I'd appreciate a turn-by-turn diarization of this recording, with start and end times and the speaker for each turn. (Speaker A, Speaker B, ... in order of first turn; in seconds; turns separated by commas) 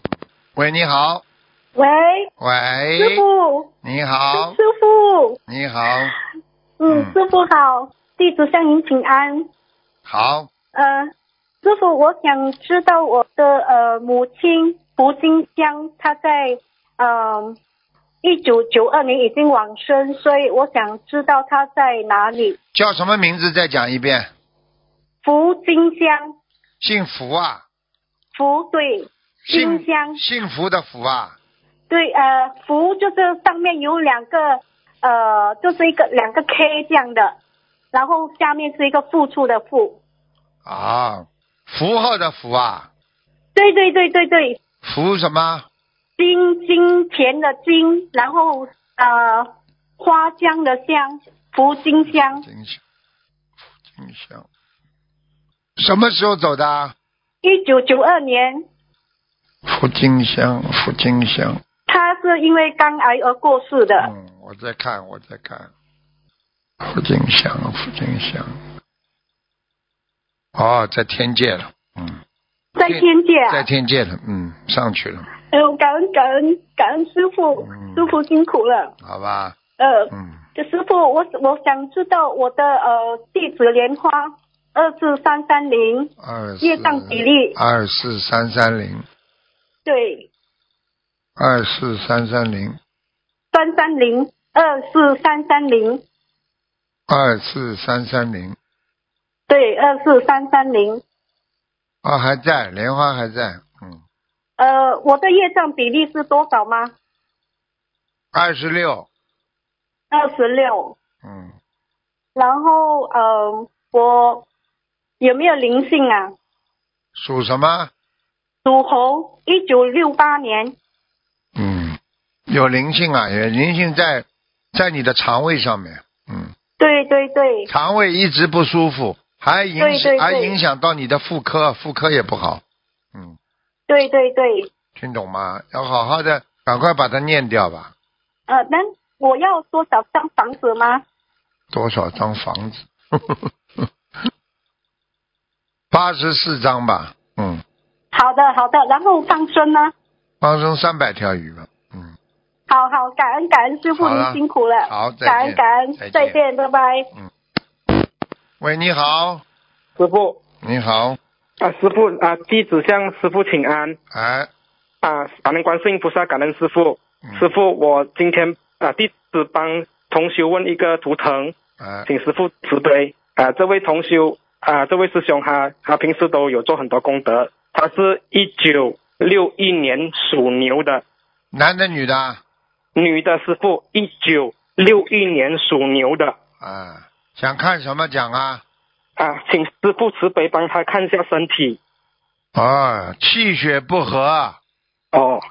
Speaker A: 0.6-1.2, Speaker B: 1.8-2.3, Speaker A: 2.4-3.2, Speaker B: 3.0-3.7, Speaker A: 3.8-4.6, Speaker B: 4.3-5.4, Speaker A: 5.5-6.2, Speaker B: 6.8-9.5, Speaker A: 6.9-7.2, Speaker A: 10.1-10.5, Speaker B: 10.7-11.1, Speaker B: 11.6-17.6, Speaker B: 18.2-22.6, Speaker A: 22.7-24.3, Speaker B: 25.2-26.4, Speaker A: 26.8-27.6, Speaker B: 28.4-30.2, Speaker A: 29.5-31.4, Speaker B: 31.9-37.4, Speaker B: 37.9-40.0, Speaker A: 40.6-42.9, Speaker B: 43.5-44.6, Speaker A: 44.8-45.7, Speaker B: 46.2-52.4, Speaker A: 52.1-52.8, Speaker A: 53.9-54.5, Speaker A: 55.8-56.9, Speaker B: 57.4-58.7, Speaker A: 59.7-61.6, Speaker B: 61.9-64.1, Speaker A: 64.0-65.7, Speaker A: 66.8-68.6, Speaker A: 70.6-72.2, Speaker B: 72.8-73.7, Speaker A: 72.8-75.3, Speaker B: 75.5-78.9, Speaker A: 77.6-78.2, Speaker A: 79.0-79.6, Speaker B: 79.8-87.6, Speaker A: 80.1-80.4, Speaker A: 86.2-89.0, Speaker B: 89.9-90.3, Speaker A: 91.4-92.8, Speaker B: 93.5-96.0, Speaker A: 97.1-98.6, Speaker B: 99.5-101.0, Speaker A: 102.0-104.0, Speaker B: 104.6-106.9, Speaker A: 108.3-109.1, Speaker B: 110.1-111.0, Speaker A: 111.2-111.5, Speaker B: 112.4-114.5, Speaker B: 115.2-116.3, Speaker A: 117.2-117.9, Speaker B: 118.7-120.8, Speaker A: 121.6-122.0, Speaker A: 122.5-126.5, Speaker B: 126.8-127.7, Speaker A: 127.7-132.6, Speaker B: 129.8-130.6, Speaker B: 133.9-134.7, Speaker A: 135.0-137.9, Speaker B: 138.5-141.0, Speaker A: 141.7-143.9, Speaker A: 145.9-147.6, Speaker B: 148.1-149.9, Speaker A: 150.4-152.1, Speaker B: 152.7-157.1, Speaker A: 153.9-156.4, Speaker A: 158.6-159.4, Speaker C: 160.0-160.4, Speaker A: 160.6-161.2, Speaker C: 161.6-164.0, Speaker A: 164.1-164.5, Speaker C: 165.0-171.5, Speaker A: 171.8-172.1, Speaker C: 172.1-181.0, Speaker A: 181.5-182.4, Speaker C: 182.9-186.3, Speaker A: 186.6-188.6, Speaker C: 189.2-191.8, Speaker A: 192.6-194.6, Speaker C: 195.1-195.4